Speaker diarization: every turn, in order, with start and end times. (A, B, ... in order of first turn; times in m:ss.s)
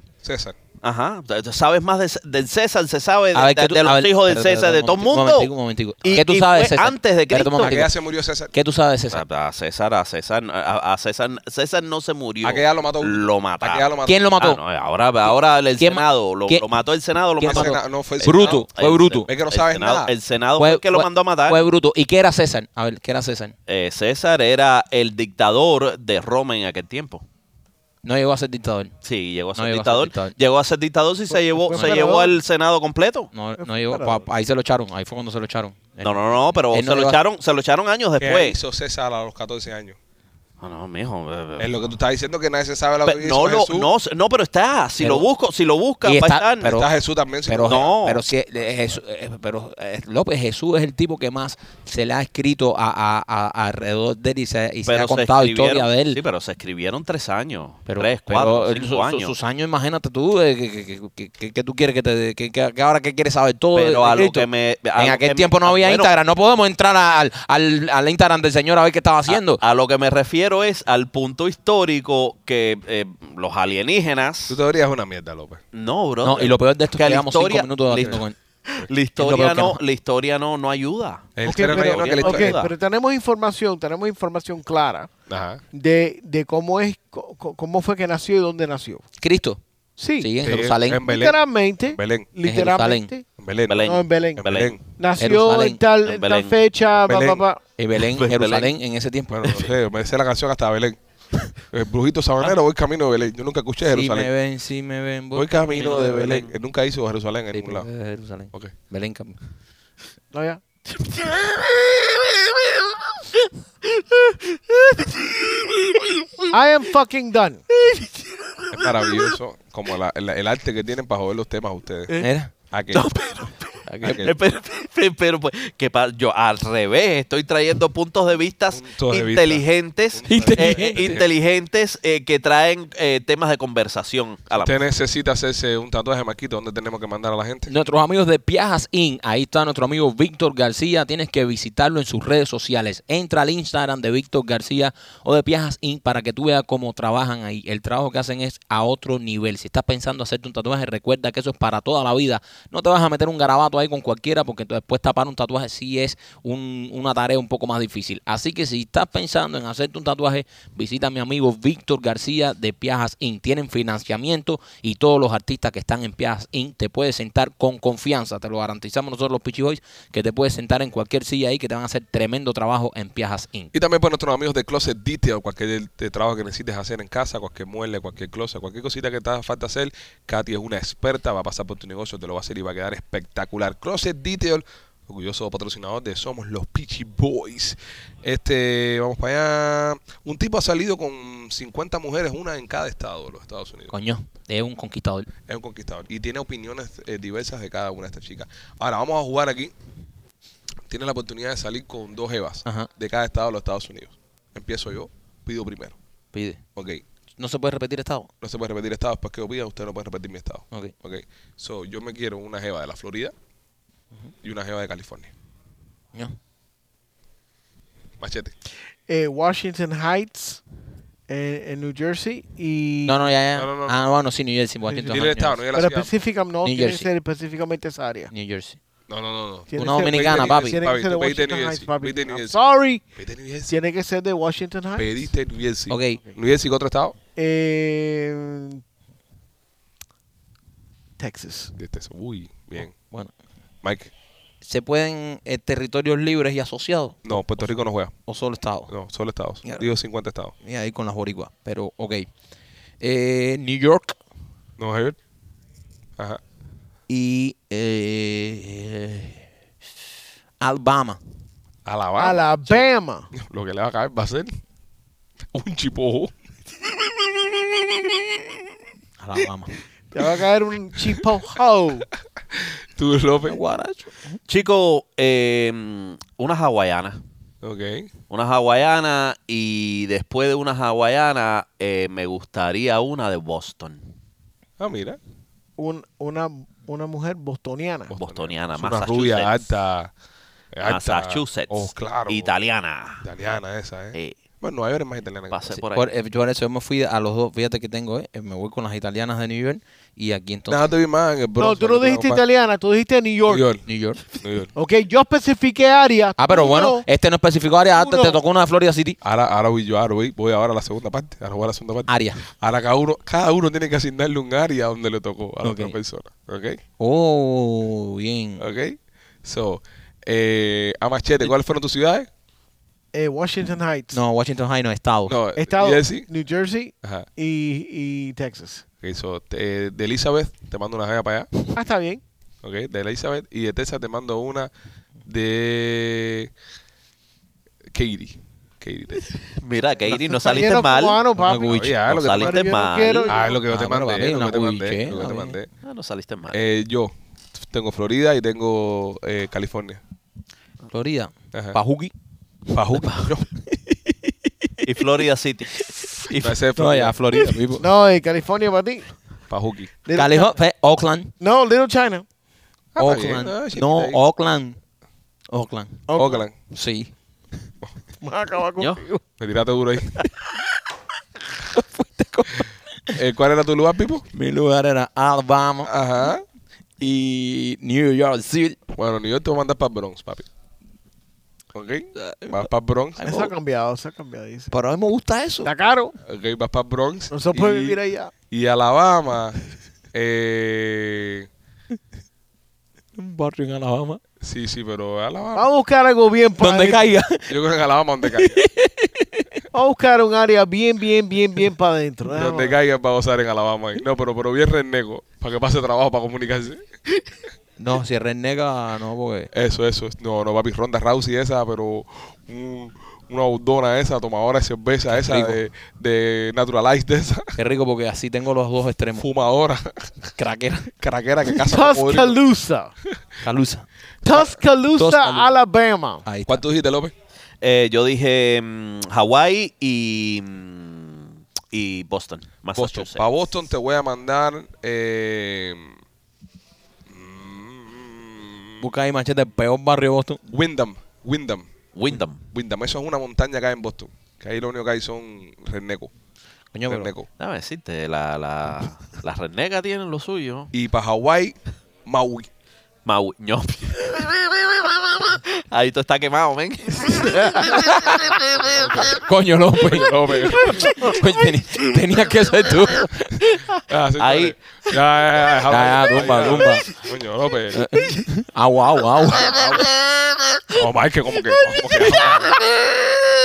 0:00.2-0:00.6 A
0:00.8-0:05.5 B
0:03.3-0:07.9 C
0:06.0-0:07.8 B
0:07.6-0:08.5 A
0:08.5-0:09.2 C
0:09.1-0:21.6 B
0:12.4-0:14.3 A
0:14.1-0:14.6 C
0:15.8-0:16.6 C
0:17.4-0:19.3 C
0:17.4-0:18.7 A
0:19.3-0:20.1 A
0:20.6-0:23.5 C
0:23.7-0:27.2 B
0:28.0-0:28.9 C
0:29.0-0:33.3 B
0:29.6-0:30.3 C
0:31.3-0:32.4 D
0:31.7-0:32.0 C
0:33.3-0:37.2 C
0:33.6-0:34.2 D
0:36.0-0:38.6 B
0:38.2-0:40.0 A
0:40.6-0:41.8 B
0:41.6-0:43.9 A
0:43.0-0:46.8 B
0:45.0-0:45.3 C
0:46.0-0:46.9 C
0:46.6-0:47.9 A
0:47.5-0:56.2 C
0:47.6-0:48.2 B
0:54.9-0:59.3 B
0:57.9-1:09.6 C
1:03.7-1:06.1 B
1:09.3-1:14.6 B
1:14.5-1:15.6 A
1:15.7-1:22.7 B
1:16.2-1:18.4 C
1:19.2-1:19.8 C
1:21.4-1:22.6 A
1:21.4-1:25.1 D
1:25.3-1:25.6 A
1:25.7-1:29.0 D
1:29.2-1:29.6 C
1:30.0-1:30.3 D
1:30.2-1:31.0 C
1:30.4-1:32.3 A
1:31.0-1:33.2 D
1:32.4-1:33.1 C
1:33.4-1:34.8 A
1:33.7-1:34.8 B
1:33.8-1:37.6 D
1:35.2-1:35.8 C
1:36.0-1:36.6 B
1:37.0-1:37.4 A
1:37.8-1:39.7 C
1:38.0-1:38.7 B
1:39.3-1:41.0 A
1:41.6-1:44.3 A
1:43.9-1:46.5 C
1:45.4-1:47.9 A
1:45.8-1:46.5 B
1:47.5-1:49.4 C
1:50.3-1:50.6 D
1:51.2-1:52.7 B
1:54.0-1:56.5 B
1:56.5-1:57.7 D
1:57.8-1:59.3 B
1:58.7-2:02.2 A
2:02.2-2:02.5 C
2:02.7-2:03.2 A
2:02.9-2:14.8 B
2:03.9-2:04.3 C
2:04.0-2:04.4 A
2:08.7-2:11.2 A
2:10.3-2:11.2 C
2:14.6-2:17.7 A
2:17.7-2:53.7 C
2:53.7-3:13.9 A
3:13.9-3:15.3 C
3:15.5-3:19.7 A
3:20.9-3:26.0 A
3:26.3-3:26.6 C
3:26.8-3:27.0 A
3:27.4-3:28.3 C
3:28.4-3:33.3 A
3:34.4-3:35.3 A
3:38.2-3:38.5 A
3:39.1-3:40.6 D
3:41.3-3:43.2 D
3:43.1-3:45.6 C
3:43.6-3:44.0 A
3:44.9-3:45.2 D
3:45.1-3:46.1 A
3:45.7-3:48.3 D
3:46.6-3:47.1 C
3:48.3-3:48.8 C
3:49.1-3:52.6 A
3:49.7-3:53.0 D
3:49.8-3:50.8 C
3:53.2-3:53.7 A
3:53.7-3:55.3 D
3:55.0-3:57.2 A
3:55.9-3:56.2 C
3:57.4-3:58.8 D
4:01.2-4:01.7 D
4:01.8-4:03.0 A
4:02.9-4:03.3 C
4:03.8-4:04.1 A
4:04.6-4:07.7 C
4:07.2-4:08.1 A
4:08.3-4:08.9 C
4:08.9-4:10.5 A
4:10.6-4:12.3 C
4:13.0-4:14.2 C
4:14.8-4:15.2 A
4:17.1-4:19.4 C
4:20.6-4:21.2 C
4:21.9-4:22.8 A
4:22.2-4:23.3 D
4:23.4-4:24.5 A
4:25.5-4:26.3 A
4:29.2-4:29.7 C
4:30.1-4:32.1 D
4:33.0-4:33.6 A
4:33.5-4:34.4 C
4:34.5-4:37.2 B
4:37.6-4:38.1 A
4:38.3-4:44.0 B
4:44.8-4:45.2 A
4:45.8-4:48.1 D
4:48.1-4:50.1 A
4:48.2-4:49.6 B
4:50.7-4:52.5 A
4:50.9-4:53.2 B
4:53.2-4:55.8 A
4:55.5-4:56.1 B
4:55.9-5:00.8 C
5:00.7-5:02.4 A
5:01.6-5:03.7 D
5:03.5-5:03.8 A
5:03.8-5:04.2 C
5:04.4-5:04.7 A
5:04.8-5:07.0 D
5:06.4-5:09.2 C
5:08.0-5:08.4 D
5:09.2-5:16.8 A
5:12.1-5:12.4 C
5:15.6-5:16.0 C
5:17.0-5:18.6 C
5:18.6-5:22.3 A
5:23.1-5:24.2 D
5:24.1-5:25.4 C
5:25.3-5:26.3 A
5:25.6-5:28.8 D
5:29.0-5:31.5 A
5:31.7-5:32.2 D
5:32.6-5:34.7 A
5:35.3-5:36.5 A
5:37.9-5:39.3 A
5:39.6-5:41.2 B
5:40.1-5:43.6 D
5:41.4-5:41.9 C
5:41.6-5:42.6 A
5:42.1-5:43.4 B
5:43.3-5:45.7 A
5:43.7-5:45.6 C
5:45.8-5:46.6 B
5:46.5-5:50.0 A
5:50.9-5:52.1 C
5:51.5-5:51.8 A
5:52.7-5:53.5 A
5:53.7-5:55.2 C
5:54.8-5:56.6 B
5:55.8-5:56.0 C
5:56.4-5:57.6 A
5:56.8-5:57.9 C
5:57.8-5:59.0 D
5:59.5-5:59.9 A
6:00.0-6:00.6 D
6:00.1-6:01.3 C
6:01.4-6:02.2 D
6:03.0-6:04.2 A
6:03.0-6:04.8 C
6:05.5-6:06.1 C
6:06.1-6:06.4 D
6:06.2-6:06.6 A
6:06.7-6:07.1 C
6:08.2-6:09.2 D
6:09.4-6:10.2 A
6:11.6-6:13.2 C
6:13.1-6:14.3 A
6:14.3-6:16.3 C
6:15.8-6:16.4 A
6:17.0-6:18.8 C
6:18.9-6:20.5 A
6:21.7-6:23.3 A
6:23.2-6:23.5 C
6:23.2-6:24.7 D
6:24.7-6:25.7 C
6:25.6-6:26.2 D
6:26.3-6:28.0 A
6:27.3-6:28.3 D
6:28.5-6:29.6 A
6:30.1-6:31.5 A
6:33.2-6:34.2 C
6:34.4-6:35.7 A
6:35.6-6:37.0 D
6:36.6-6:37.5 C
6:37.5-6:38.6 A
6:38.2-6:39.6 C
6:39.7-6:42.8 D
6:42.3-6:46.8 A
6:47.8-6:49.5 C
6:49.5-6:57.5 A
6:55.1-6:55.6 C
6:57.6-6:59.2 C
6:59.2-7:00.3 A
7:00.4-7:00.9 C
7:01.0-7:02.4 A
7:01.6-7:02.9 D
7:03.4-7:03.9 C
7:04.2-7:06.3 D
7:04.3-7:04.6 A
7:05.0-7:05.5 C
7:06.2-7:06.6 C
7:06.5-7:07.1 A
7:07.6-7:13.3 B
7:12.8-7:16.0 A
7:17.1-7:18.8 A
7:18.8-7:20.4 C
7:20.5-7:21.7 A
7:22.0-7:22.4 B
7:22.5-7:26.1 A
7:26.7-7:27.1 C
7:26.9-7:27.3 A
7:27.3-7:30.7 B
7:30.7-7:32.5 A
7:33.1-7:39.2 B
7:37.2-7:43.4 C
7:39.8-7:41.0 A
7:43.8-7:47.9 A
7:44.2-7:45.0 B
7:45.7-7:46.9 C
7:47.7-7:49.9 C
7:49.4-7:49.9 A
7:50.7-7:52.5 A